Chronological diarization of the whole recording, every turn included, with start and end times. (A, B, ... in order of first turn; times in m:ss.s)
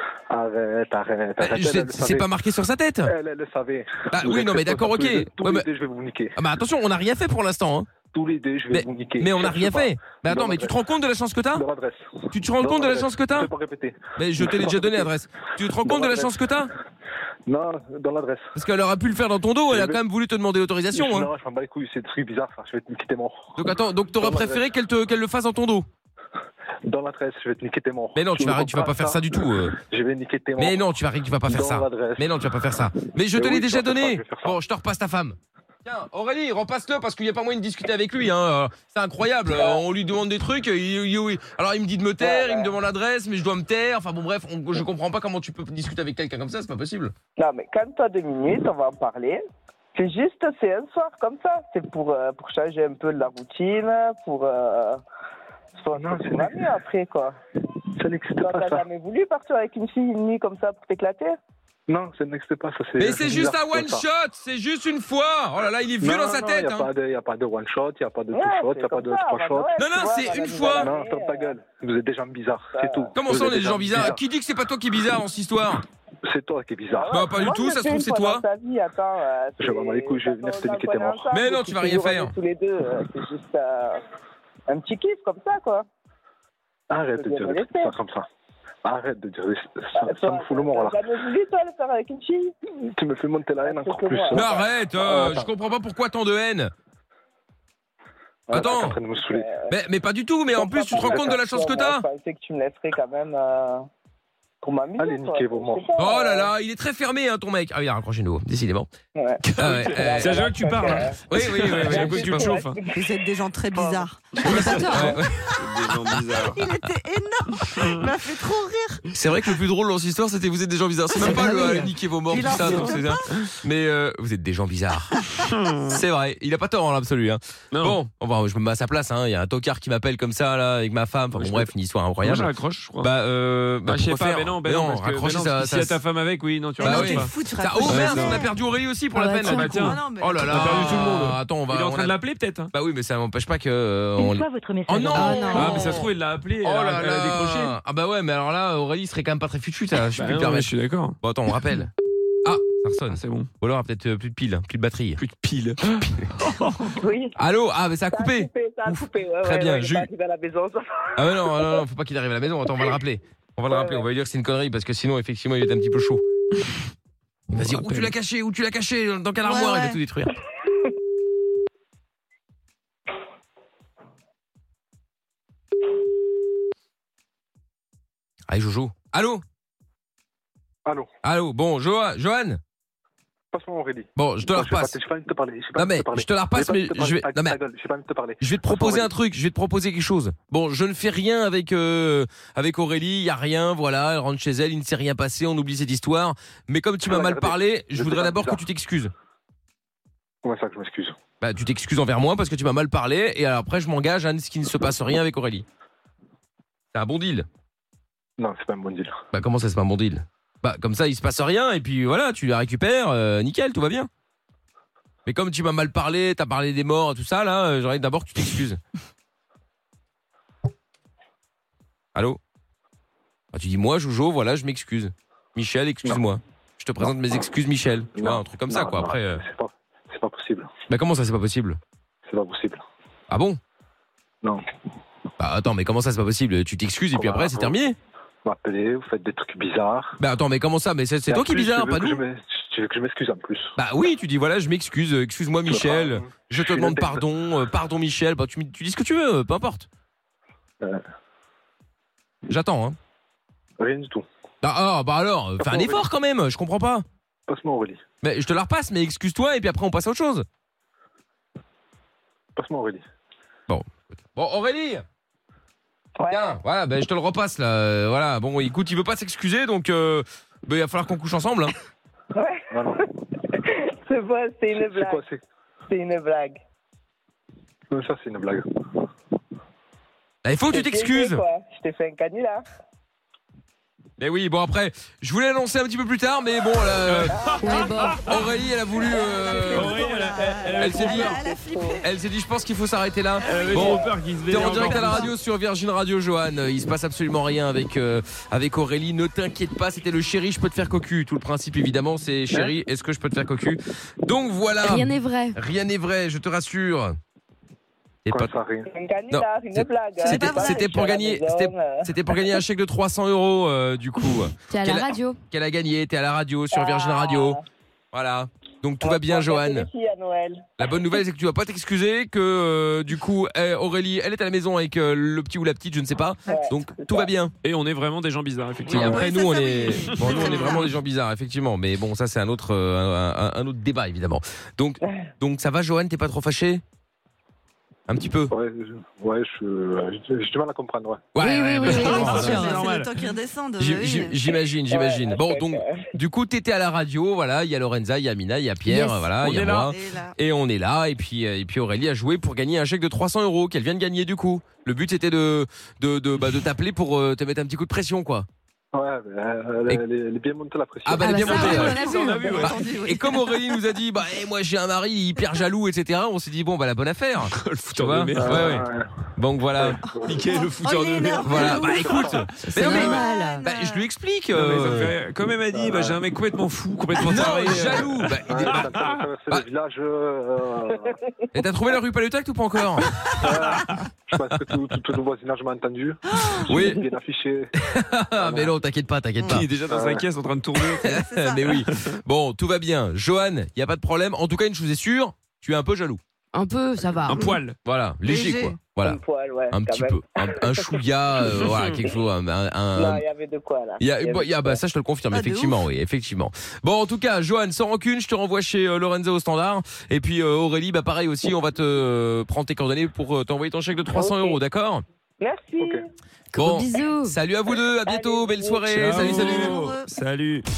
0:00.3-0:02.3 A
0:01.4-0:03.1 B
0:03.0-0:06.4 A
0:04.1-0:05.6 B
0:06.4-0:07.9 B
0:08.1-0:10.8 A
0:08.7-0:11.6 B
0:11.5-0:15.1 A
0:12.3-0:13.5 B
0:14.2-0:16.7 B
0:15.8-0:16.3 A
0:17.5-0:18.5 A
0:18.5-0:21.3 B
0:19.7-0:20.0 A
0:20.9-0:23.5 A
0:23.6-0:25.8 B
0:24.2-0:24.6 A
0:26.8-0:30.8 A
0:28.1-0:29.8 B
0:30.6-0:47.1 B
0:31.5-0:32.3 A
0:33.3-0:34.6 A
0:42.2-0:42.7 C
0:47.4-0:49.4 C
0:49.9-0:55.0 C
0:55.8-0:57.4 C
0:56.0-0:56.5 A
0:58.0-0:58.8 A
0:58.4-1:01.4 C
1:01.9-1:04.0 A
1:03.0-1:06.9 B
1:06.0-1:09.7 A
1:08.3-1:11.6 C
1:09.8-1:10.9 B
1:10.8-1:14.2 A
1:12.7-1:13.1 C
1:13.1-1:15.8 B
1:16.2-1:17.2 A
1:16.9-1:24.0 C
1:17.1-1:18.4 B
1:19.6-1:21.2 A
1:21.3-1:22.3 B
1:24.7-1:25.8 C
1:26.9-1:28.3 A
1:27.1-1:27.9 C
1:28.8-1:31.0 A
1:30.0-1:32.5 C
1:32.8-1:35.5 A
1:33.6-1:34.7 C
1:34.3-1:36.7 B
1:38.5-1:39.5 A
1:38.5-1:39.0 B
1:39.2-1:39.7 C
1:39.7-1:42.0 B
1:40.5-1:43.9 C
1:44.6-1:46.5 C
1:45.0-1:45.8 A
1:46.0-1:48.9 B
1:49.1-1:51.2 C
1:49.4-1:52.8 D
1:49.6-1:50.4 B
1:51.3-1:52.5 B
1:51.8-1:53.1 C
1:52.9-1:55.2 E
1:53.7-1:54.0 C
1:54.4-1:56.7 D
1:54.4-1:56.9 B
1:54.6-1:55.1 F
1:56.4-1:59.1 E
1:57.6-1:58.1 D
1:59.1-2:05.3 B
2:01.1-2:03.2 E
2:02.6-2:02.9 D
2:05.4-2:06.0 D
2:05.8-2:16.0 B
2:07.7-2:08.0 D
2:11.3-2:13.1 D
2:13.8-2:18.4 D
2:16.8-2:22.2 B
2:16.8-2:18.5 E
2:19.1-2:19.8 F
2:19.4-2:21.2 E
2:19.4-2:22.7 D
2:22.7-2:31.9 B
2:25.1-2:26.0 F
2:25.4-2:27.8 D
2:30.2-2:31.2 D
2:32.4-2:35.2 B
2:33.1-2:33.5 D
2:35.2-2:37.0 D
2:36.9-2:37.4 C
2:37.4-2:40.1 B
2:38.1-2:41.6 C
2:41.2-2:46.2 B
2:43.7-2:44.0 C
2:47.5-2:50.4 B
2:47.6-2:48.1 D
2:49.4-2:50.0 E
2:58.5-2:59.4 B
3:01.2-3:02.6 B
3:03.5-3:09.1 A
3:04.2-3:05.0 B
3:05.8-3:07.6 B
3:08.4-3:19.1 B
3:17.0-3:18.6 A
3:20.4-3:21.2 A
3:21.4-3:25.6 B
3:26.9-3:27.5 B
3:28.4-3:29.2 A
3:29.3-3:34.1 B
3:35.2-3:38.8 B
3:43.5-3:49.4 B
3:48.2-3:50.7 A
3:50.9-3:51.8 B
3:52.3-3:52.8 A
3:53.3-3:53.6 B
3:55.4-3:58.0 B
3:57.1-3:57.8 A
3:58.4-4:00.2 A
4:00.2-4:02.2 B
4:01.3-4:03.7 A
4:03.8-4:09.9 B
4:05.7-4:07.2 A
4:12.5-4:13.0 B
4:13.8-4:14.2 A
4:14.6-4:17.0 B
4:15.6-4:16.0 A
4:17.5-4:18.0 A
4:18.2-4:20.4 B
4:22.6-4:23.0 A
4:23.7-4:25.0 B
4:26.2-4:26.6 C
4:26.3-4:31.7 B
4:32.3-4:33.0 C
4:32.7-4:33.0 A
4:33.5-4:35.2 C
4:34.7-4:35.4 A
4:35.9-4:36.6 C
4:37.9-4:38.7 A
4:40.4-4:41.4 B
4:40.7-4:42.6 C
4:44.2-4:47.4 B
4:47.0-4:48.4 D
4:47.5-4:48.1 C
4:47.6-4:48.4 F
4:48.2-4:50.0 B
4:49.3-4:52.1 E
4:49.6-4:51.4 D
4:50.8-4:51.4 B
4:50.9-4:52.0 C
4:52.0-5:07.2 B
4:53.4-4:55.3 D
4:53.4-4:54.0 E
4:54.7-4:55.2 E
5:04.8-5:05.6 F
5:08.2-5:08.5 B
5:08.3-5:08.9 A
5:08.9-5:12.1 C
5:09.3-5:17.6 B
5:10.2-5:10.9 E
5:14.7-5:15.4 F
5:16.7-5:17.6 C
5:18.1-5:19.9 B
5:19.0-5:20.7 C
5:20.8-5:27.5 B
5:26.5-5:27.3 C
5:27.6-5:29.3 D
5:28.9-5:36.8 B
5:28.9-5:30.9 E
5:29.9-5:30.9 D
5:38.1-5:38.5 B
5:38.5-5:41.3 A
5:41.3-5:43.0 B
5:41.4-5:42.7 F
5:41.8-5:43.3 D
5:41.9-5:44.5 E
5:43.8-5:58.5 B
5:44.9-5:46.0 C
5:48.8-5:49.3 F
5:49.4-5:49.9 D
5:49.8-5:50.4 E
5:58.9-6:01.8 A
6:01.0-6:08.8 B
6:01.2-6:02.7 F
6:01.4-6:03.0 D
6:01.9-6:03.6 E
6:07.5-6:08.8 D
6:08.4-6:09.2 A
6:09.4-6:15.2 B
6:10.1-6:14.1 E
6:11.4-6:12.5 A
6:12.6-6:13.3 D
6:14.5-6:19.2 D
6:15.7-6:16.2 A
6:17.2-6:19.0 B
6:17.7-6:21.2 A
6:21.5-6:23.1 B
6:23.3-6:27.7 A
6:26.5-6:27.1 B
6:27.8-6:29.7 B
6:28.4-6:28.7 A
6:29.4-6:29.6 E
6:29.5-6:32.0 D
6:29.9-6:30.2 A
6:30.9-6:36.2 B
6:31.1-6:31.7 E
6:36.5-6:37.6 F
6:37.2-6:37.8 D
6:37.8-6:43.2 B
6:38.2-6:38.8 E
6:39.0-6:40.9 C
6:41.6-6:42.2 C
6:42.9-6:44.8 C
6:44.0-6:55.0 B
6:45.3-6:45.8 E
6:54.1-6:54.6 C
6:55.4-6:56.1 C
6:56.5-6:57.3 F
6:56.5-6:59.8 B
6:58.0-6:59.2 C
6:58.9-7:00.6 D
6:59.2-7:00.1 E